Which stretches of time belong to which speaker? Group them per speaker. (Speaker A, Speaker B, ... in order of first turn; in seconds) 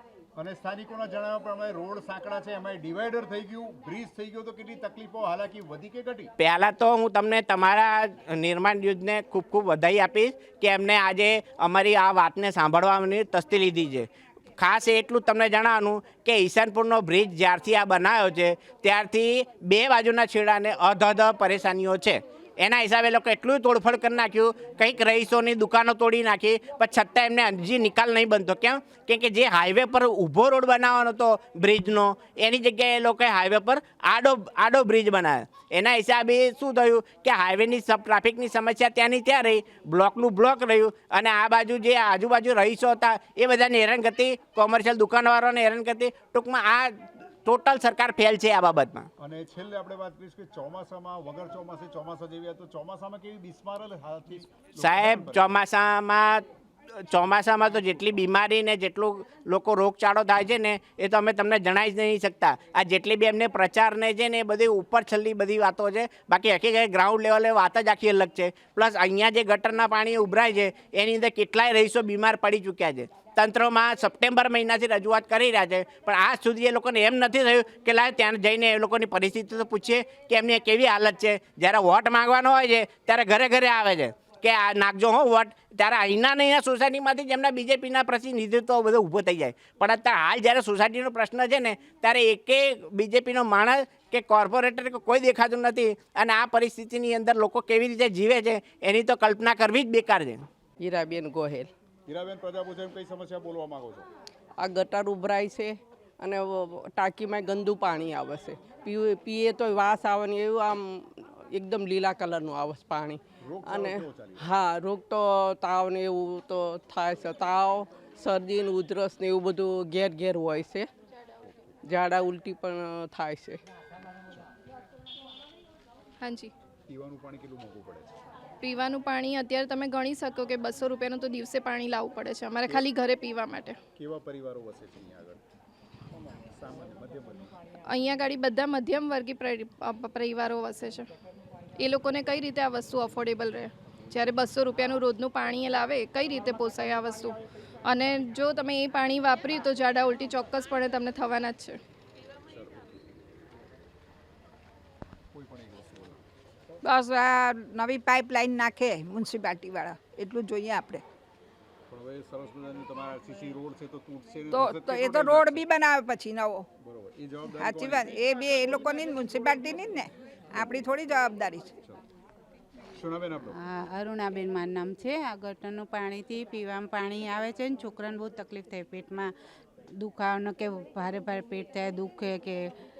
Speaker A: 0.3-6.3, 49.2-55.5, 102.1-104.1, 113.4-114.4, 121.4-121.7, 126.9-128.2, 133.9-135.4, 136.2-137.5, 152.5-153.0, 155.3-156.8, 161.9-165.6, 166.8-168.2, 172.9-173.5
Speaker B: 6.4-49.1, 54.8-100.5
Speaker C: 100.8-101.7, 104.6-120.9, 121.8-123.6
Speaker D: 126.2-126.5, 128.6-133.8, 137.9-141.1, 141.8-151.8
Speaker E: 156.8-161.0, 164.5-166.7, 167.6-171.7
Speaker F: 173.5-179.3, 179.9-182.7